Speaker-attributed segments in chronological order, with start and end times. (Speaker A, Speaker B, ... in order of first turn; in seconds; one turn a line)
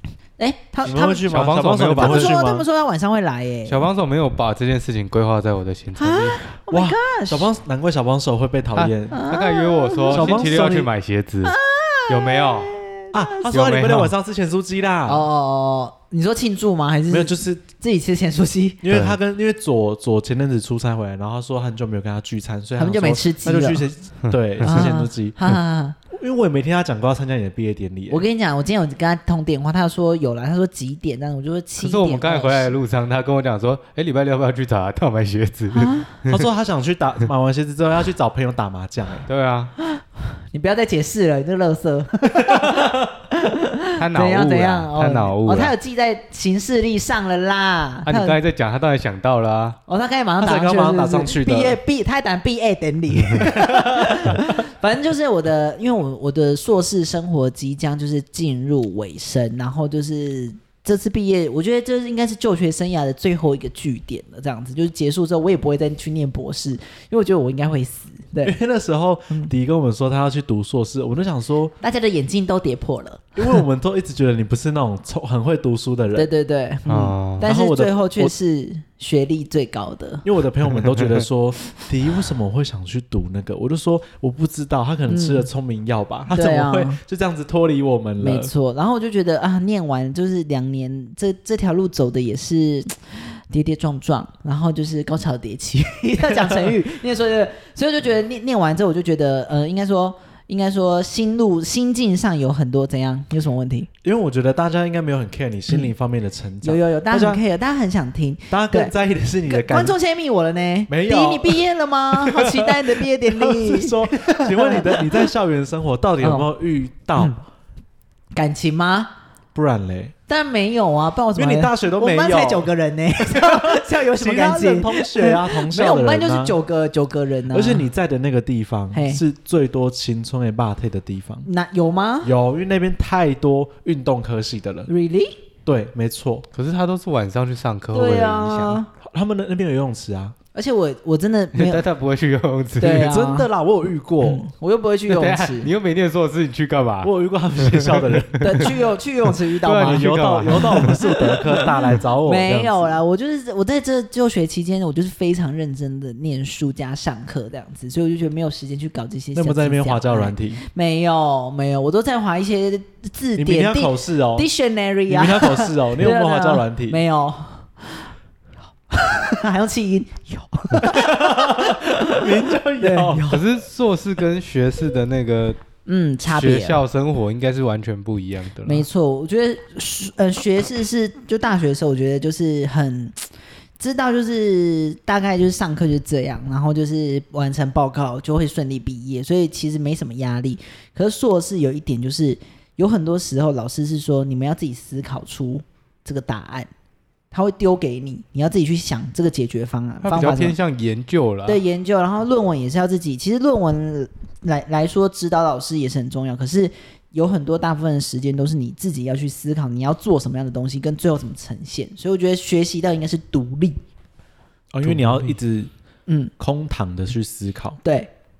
Speaker A: 0.4-1.3
Speaker B: 0.8-2.6
Speaker C: 1.3-2.4
Speaker A: 2.0-3.9
Speaker C: 3.7-6.4
Speaker A: 6.0-7.5
Speaker B: 6.7-9.2
Speaker A: 9.1-10.6
Speaker C: 9.3-11.6
Speaker B: 10.1-10.9
Speaker A: 11.4-13.5
Speaker C: 12.1-12.8
Speaker B: 13.1-15.3
Speaker C: 13.5-14.1
Speaker A: 15.1-18.8
Speaker B: 17.1-17.6
Speaker B: 18.8-25.6
Speaker A: 22.8-23.8
Speaker C: 24.2-24.9
Speaker A: 24.6-26.0
Speaker B: 26.1-28.2
Speaker A: 28.1-32.8
Speaker C: 31.8-36.4
Speaker A: 35.7-36.1
Speaker B: 36.3-39.3
Speaker C: 39.3-39.7
Speaker A: 39.8-48.4
Speaker B: 42.3-43.1
Speaker C: 44.0-45.7
Speaker C: 48.1-49.8
Speaker A: 49.9-68.6
Speaker B: 50.4-51.8
Speaker B: 53.5-54.5
Speaker B: 68.4-71.7
Speaker A: 71.8-73.6
Speaker B: 73.4-76.3
Speaker A: 76.1-80.2
Speaker C: 76.9-77.5
Speaker B: 77.4-78.3
Speaker B: 80.2-88.5
Speaker A: 85.1-85.5
Speaker A: 86.3-87.0
Speaker A: 88.2-103.9
Speaker B: 104.0-107.4
Speaker A: 106.6-108.9
Speaker B: 108.5-110.0
Speaker A: 109.5-115.3
Speaker B: 110.9-117.4
Speaker A: 116.2-116.5
Speaker A: 118.3-119.1
Speaker B: 119.5-120.1
Speaker A: 120.3-127.9
Speaker B: 121.4-122.7
Speaker B: 123.2-126.5
Speaker B: 127.5-131.5
Speaker A: 128.9-129.2
Speaker A: 131.4-132.3
Speaker B: 132.2-134.9
Speaker A: 134.9-135.4
Speaker B: 135.7-136.5
Speaker C: 136.5-138.8
Speaker A: 137.9-138.9
Speaker B: 139.0-140.3
Speaker A: 140.5-141.8
Speaker C: 141.5-143.1
Speaker A: 142.8-143.5
Speaker B: 142.9-144.5
Speaker A: 144.2-145.7
Speaker C: 145.1-148.7
Speaker B: 147.0-148.9
Speaker A: 148.4-168.1
Speaker C: 149.6-151.0
Speaker B: 149.8-153.0
Speaker B: 159.3-160.6
Speaker B: 163.3-164.5
Speaker B: 165.1-167.0
Speaker A: 168.9-173.4
Speaker B: 170.8-173.4
Speaker C: 173.3-175.6
Speaker A: 175.8-176.8
Speaker C: 176.2-178.9
Speaker A: 178.7-183.3
Speaker A: 183.8-196.7
Speaker A: 197.3-200.6
Speaker C: 200.0-201.6
Speaker A: 201.5-213.8
Speaker B: 214.7-215.7
Speaker C: 214.8-215.2
Speaker A: 216.1-216.3
Speaker B: 216.4-217.8
Speaker A: 217.8-218.1